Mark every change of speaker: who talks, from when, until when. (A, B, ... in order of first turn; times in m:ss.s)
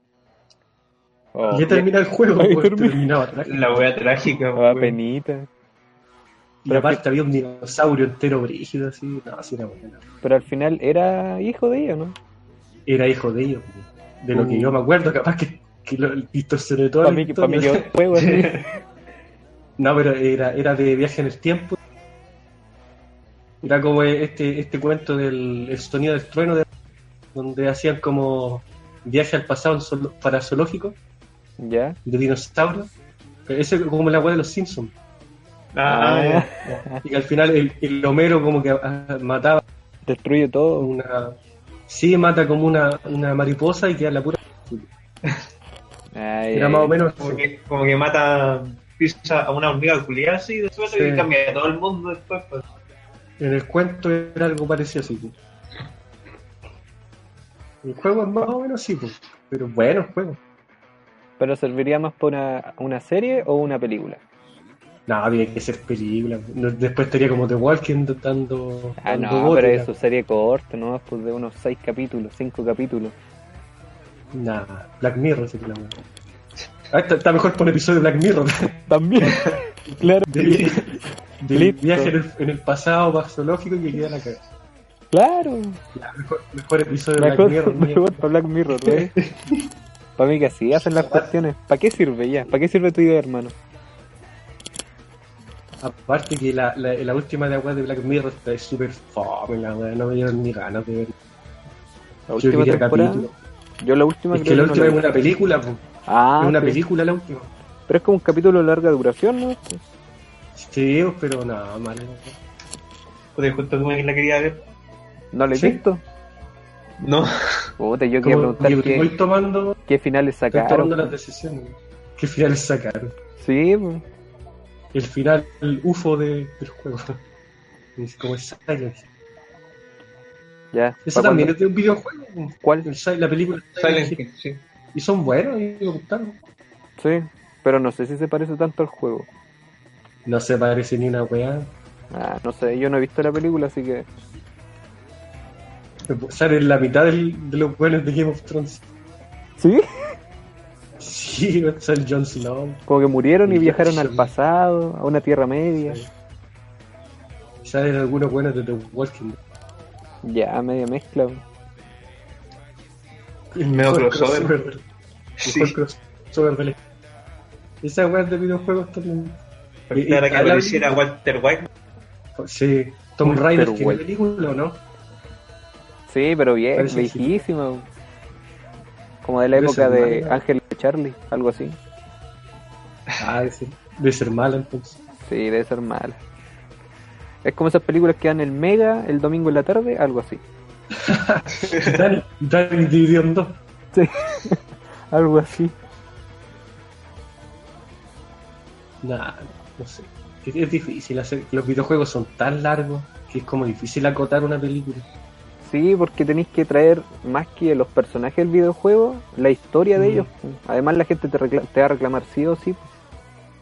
0:01.4-0:03.1 A
0:01.5-0:03.9 B
0:03.4-0:05.0 C
0:04.6-0:05.5 A
0:06.6-0:10.0 B
0:06.7-0:07.0 A
0:10.2-0:12.2 A
0:12.9-0:17.9 B
0:14.3-0:14.8 A
0:17.0-0:18.6 A
0:18.1-0:18.7 C
0:19.8-0:21.8 B
0:23.6-0:26.7 B
0:27.3-0:31.0 B
0:31.6-0:32.0 A
0:32.0-0:32.9 B
0:33.5-0:34.9 B
0:35.7-0:36.8 C
0:35.9-0:37.0 A
0:37.0-0:39.6 B
0:40.1-0:40.9 A
0:40.8-0:41.4 B
0:41.9-0:44.9 B
0:46.2-0:47.0 A
0:46.5-0:47.4 B
0:47.2-0:52.6 C
0:50.9-0:51.3 B
0:53.4-0:55.4 B
0:57.8-1:00.4 B
1:01.4-1:04.2 A
1:05.1-1:09.9 B
1:09.0-1:13.2 A
1:14.3-1:16.0 B
1:16.9-1:19.3 B
1:18.9-1:20.8 A
1:19.9-1:24.5 B
1:20.4-1:20.7 C
1:21.5-1:22.2 A
1:25.1-1:25.8 A
1:26.0-1:28.2 B
1:27.2-1:29.1 A
1:29.3-1:29.6 C
1:30.2-1:33.6 A
1:35.8-1:41.1 B
1:42.3-1:43.3 A
1:42.4-1:43.3 B
1:43.8-1:45.0 A
1:44.3-1:45.8 B
1:46.1-1:46.8 A
1:46.4-1:47.5 B
1:47.9-1:49.8 A
1:50.6-1:52.4 B
1:53.4-1:54.6 C
1:55.3-1:56.0 A
1:55.5-1:55.8 B
1:57.0-1:57.7 C
1:57.8-1:59.2 A
1:58.2-1:59.8 B
1:59.9-2:01.1 A
2:00.5-2:03.2 B
2:03.4-2:04.0 A
2:04.9-2:07.2 B
2:08.0-2:09.0 B
2:10.7-2:11.6 A
2:11.0-2:14.2 B
2:12.6-2:12.9 A
2:13.8-2:14.6 C
2:14.9-2:16.4 B
2:17.0-2:19.3 A
2:20.2-2:21.7 B
2:22.1-2:24.1 A
2:26.1-2:28.8 B
2:29.6-2:29.9 A
2:31.0-2:32.8 B
2:32.9-2:36.0 A
2:33.4-2:34.3 B
2:35.8-2:36.1 B
2:37.6-2:39.4 B
2:40.2-2:41.4 A
2:43.6-2:44.8 B
2:43.6-2:44.5 C
2:45.4-2:45.8 C
2:45.4-2:46.8 B
2:47.8-2:49.4 B
2:49.9-2:51.7 C
2:49.9-2:50.9 B
2:52.4-2:54.8 B
2:53.2-2:54.0 A
2:56.1-2:57.9 A
2:56.8-2:57.3 B
2:59.2-3:01.8 A
2:59.5-3:00.4 B
3:03.2-3:05.0 B
3:05.3-3:06.2 A
3:07.4-3:10.4 A
3:11.0-3:13.6 B
3:11.5-3:12.1 C
3:13.9-3:15.8 A
3:19.0-3:25.1 B
3:25.6-3:32.9 A
3:30.0-3:30.3 B